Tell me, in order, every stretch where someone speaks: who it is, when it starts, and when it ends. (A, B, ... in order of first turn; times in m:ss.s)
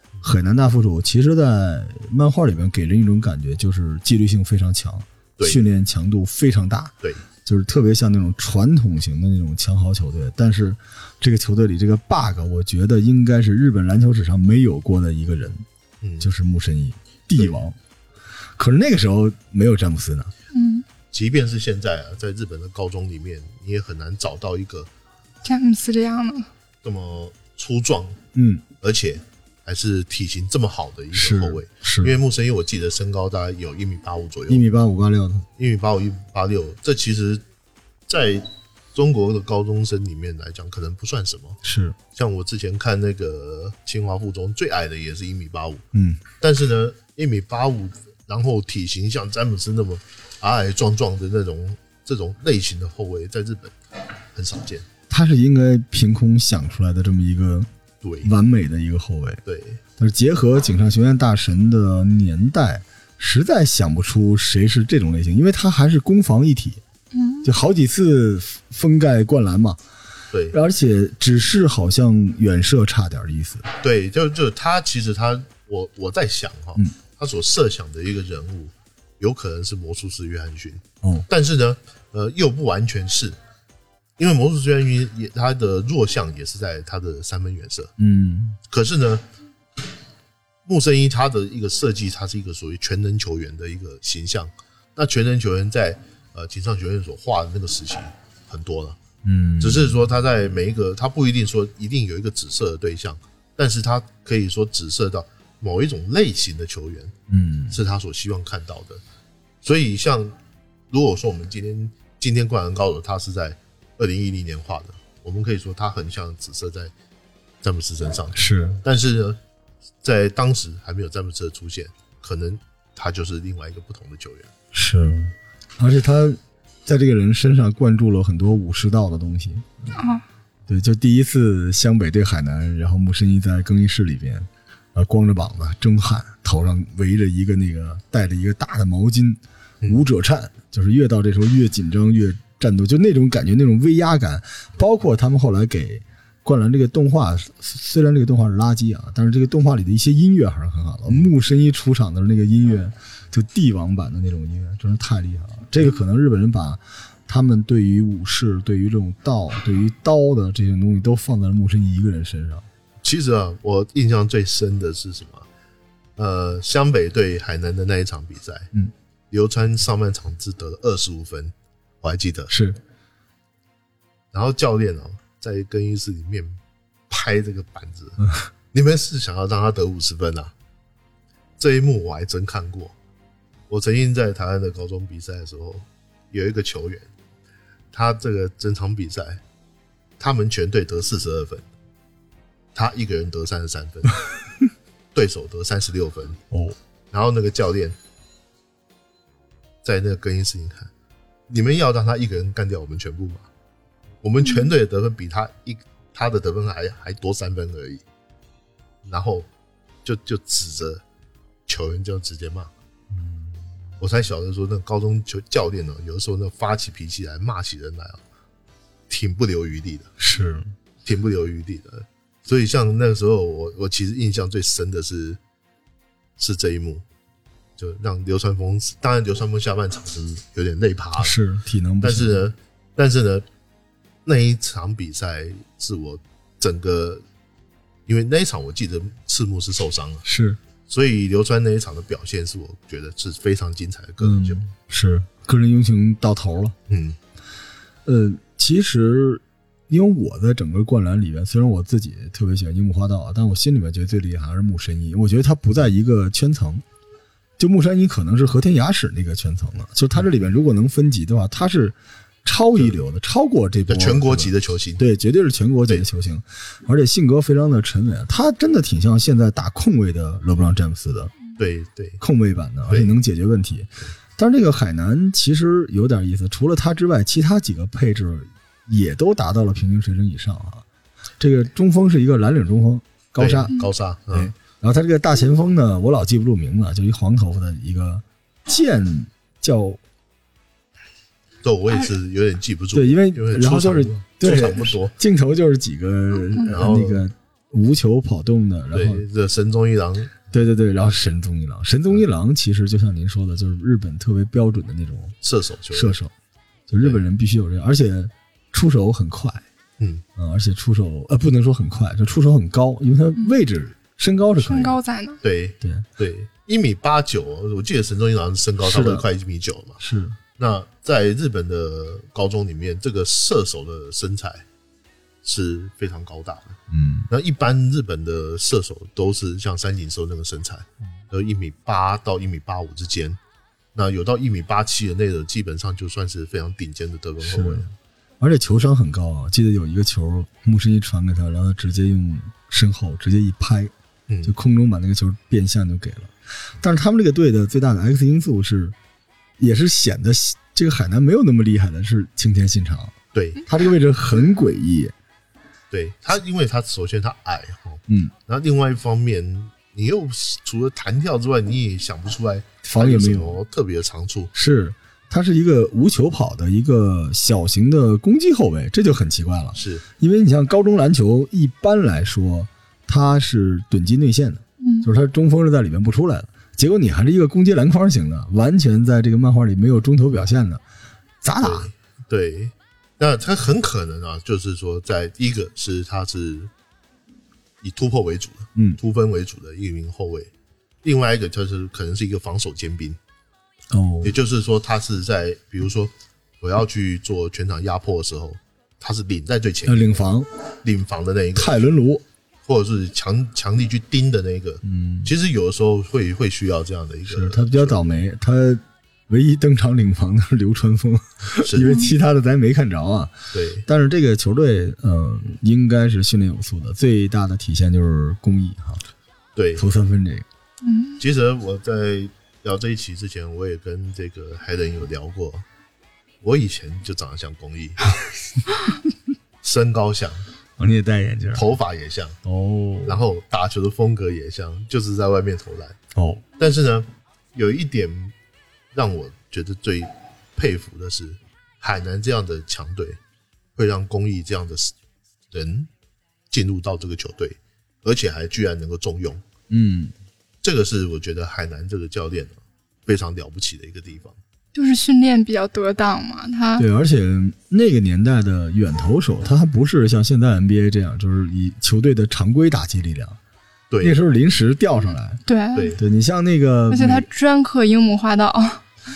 0:00.2-0:15.6 A
0:16.0-0:16.3 B
0:16.2-0:17.8 A
0:18.6-0:20.3 A
0:20.5-0:20.8 C
0:21.1-0:24.9 B
0:25.4-0:26.5 C
0:26.8-0:28.2 B
0:28.3-0:28.6 A
0:28.8-0:34.6 B
0:31.1-0:32.1 A
0:34.5-0:35.5 A
0:35.6-0:37.4 B
0:38.1-0:41.6 B
0:41.6-0:42.0 A
0:42.1-0:45.8 B
0:45.9-0:46.2 A
0:46.4-0:53.7 B
0:54.3-0:54.8 B
0:55.1-0:57.7 A
0:58.0-0:58.3 B
0:58.2-0:59.4 A
0:59.4-0:59.8 B
1:00.0-1:06.8 A
1:07.1-1:07.5 C
1:07.4-1:09.8 A
1:10.3-1:10.6 B
1:10.5-1:13.6 A
1:13.8-1:23.4 B
1:21.0-1:21.3 A
1:24.2-1:27.9 B
1:28.0-1:28.6 A
1:28.7-1:29.2 B
1:30.6-1:39.0 B
1:39.2-1:39.9 A
1:39.6-1:47.1 B
1:47.3-1:47.8 A
1:47.7-1:49.0 B
1:49.6-1:50.4 B
1:50.9-1:56.9 B
1:57.6-1:59.4 B
1:58.3-1:58.8 A
2:00.0-2:04.5 B
2:04.7-2:09.7 A
2:10.0-2:10.2 C
2:10.7-2:42.6 A
2:43.0-2:45.5 B
2:46.2-2:48.7 B
2:49.3-2:52.5 B
2:52.5-2:52.8 A
2:54.3-2:56.6 B
2:57.1-3:00.5 B
3:01.6-3:02.9 B
3:03.7-3:07.1 B
3:07.9-3:09.4 B
3:10.2-3:11.6 B
3:12.7-3:14.2 B
3:15.1-3:16.4 B
3:16.5-3:16.8 A
3:17.1-3:18.0 B
3:19.8-3:20.9 B
3:21.5-3:23.5 B
3:24.2-3:28.0 B
3:29.0-3:29.5 B
3:30.0-3:31.0 B
3:31.7-3:32.7 B
3:33.1-3:33.5 A
3:34.0-3:38.2 B
3:39.1-3:40.1 B
3:40.2-3:40.6 A
3:41.0-3:45.4 B
3:46.4-3:47.0 B
3:47.8-3:51.4 B
3:51.2-3:52.4 A
3:52.0-3:53.4 B
3:54.2-3:57.2 B
3:58.1-4:00.2 B
4:00.2-4:00.6 A
4:00.9-4:04.6 B
4:04.2-4:06.8 A
4:06.9-4:07.2 B
4:08.0-4:16.8 A
4:17.6-4:31.3 A
4:23.9-4:25.0 B
4:31.6-4:32.2 B
4:32.2-4:40.8 A
4:32.9-4:33.2 B
4:41.4-4:43.8 A
4:43.4-4:44.5 B
4:44.3-4:50.0 A
4:51.6-4:55.1 B
4:52.9-4:59.2 A
4:56.7-4:57.2 B
4:58.9-5:00.4 B
5:00.5-5:05.4 A
5:05.4-5:06.2 B
5:05.9-5:06.3 A
5:06.9-5:09.6 A
5:10.0-5:10.2 B
5:10.4-5:15.0 A
5:14.6-5:15.4 C
5:15.4-5:20.0 B
5:15.8-5:16.0 A
5:18.8-5:19.3 A
5:20.0-5:20.4 A
5:20.6-5:24.6 B
5:25.4-5:26.8 B
5:26.9-5:27.3 A
5:27.3-5:33.4 B
5:33.9-5:37.9 B
5:37.4-5:43.9 A
5:44.3-5:44.5 B
5:44.4-5:48.9 A
5:49.6-5:55.1 A
5:53.3-5:53.6 B
5:55.9-6:04.5 B
5:58.1-5:58.3 A
6:02.8-6:03.6 A
6:04.5-6:20.8 A
6:09.7-6:10.0 B
6:14.8-6:15.1 C
6:21.4-6:21.9 A
6:21.6-6:26.7 B
6:27.8-6:30.5 B
6:31.0-6:33.2 B
6:33.9-6:34.4 A
6:34.2-6:40.3 B
6:39.8-6:40.5 A
6:40.8-6:41.8 B
6:41.5-6:42.2 A
6:42.6-6:48.2 B
6:44.8-6:45.3 A
6:47.3-6:59.0 A
6:51.6-6:51.9 B
6:51.8-6:52.1 C
6:53.5-6:53.8 B
6:59.6-6:59.8 B
6:59.8-7:00.4 A
7:00.8-7:01.2 C
7:01.2-7:05.6 B
7:06.4-7:08.1 B
7:09.6-7:10.4 B
7:10.8-7:11.7 A
7:11.5-7:12.4 B
7:12.4-7:13.2 A
7:13.0-7:16.0 B
7:16.1-7:16.4 A
7:16.6-7:18.3 B
7:18.9-7:23.2 B
7:23.8-7:24.9 B
7:25.5-7:25.9 B
7:26.5-7:29.4 B
7:29.7-7:30.1 A
7:30.6-7:34.4 B
7:34.7-7:36.8 C
7:36.8-7:43.4 A
7:43.9-7:44.2 B
7:44.0-7:45.4 A
7:45.5-7:46.0 C
7:45.7-7:46.0 B
7:46.0-7:47.3 A
7:46.9-7:48.8 C